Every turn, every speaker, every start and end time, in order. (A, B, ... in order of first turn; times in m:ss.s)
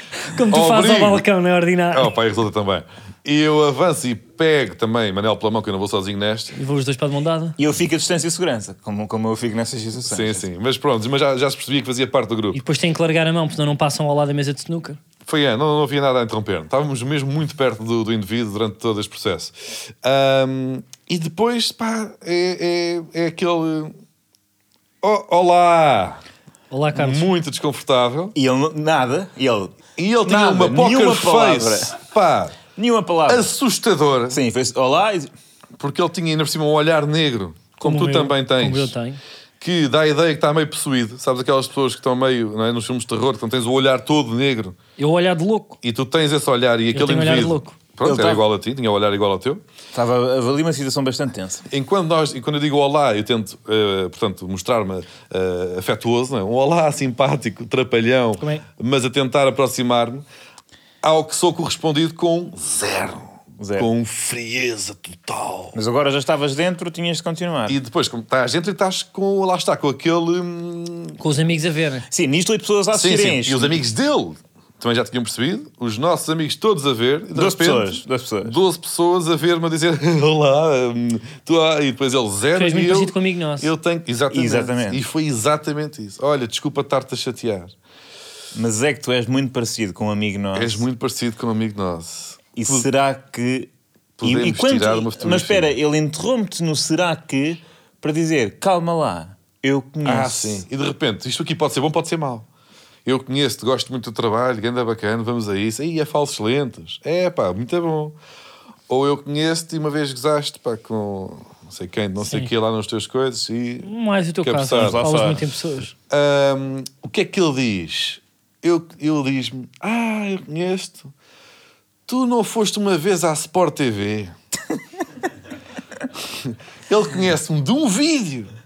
0:00.3-0:02.1 A
0:00.5-0:01.2 B
0:01.9-0:06.6 B
0:06.6-0:07.6 A
0:07.6-0:10.4 C
0:10.1-0:12.6 B
0:12.5-0:15.0 A
0:15.2-0:24.0 B
0:25.0-0:26.2 B
0:26.7-0:27.3 A
0:27.0-0:28.3 B
0:28.4-0:32.0 C
0:30.0-0:32.6 B
0:32.8-0:33.5 C
0:33.3-0:34.4 B
0:34.3-0:35.3 C
0:35.8-0:38.9 B
0:37.8-0:39.2 A
0:39.6-0:44.8 B
0:45.0-0:45.8 A
0:45.8-0:49.6 B
0:46.9-0:47.8 A
0:48.0-0:48.4 C
0:49.9-0:51.6 C
0:51.7-1:00.2 B
0:58.4-0:58.6 A
1:01.0-1:05.8 B
1:03.6-1:03.9 C
1:05.7-1:07.8 C
1:07.7-1:11.2 B
1:11.2-1:12.0 A
1:12.1-1:13.8 C
1:12.9-1:27.7 B
1:17.3-1:18.6 C
1:22.5-1:23.7 A
1:24.3-1:25.0 C
1:28.5-1:30.8 C
1:30.6-1:32.9 B
1:32.6-1:33.7 C
1:34.2-1:35.7 B
1:34.2-1:40.6 C
1:40.0-1:42.5 B
1:43.1-1:48.2 B
1:48.9-1:53.9 B
1:52.2-1:52.5 A
1:53.8-1:55.9 A
1:54.4-1:55.4 B
1:54.8-1:55.4 C
1:56.1-2:01.1 B
2:02.1-2:04.3 B
2:06.4-2:08.5 B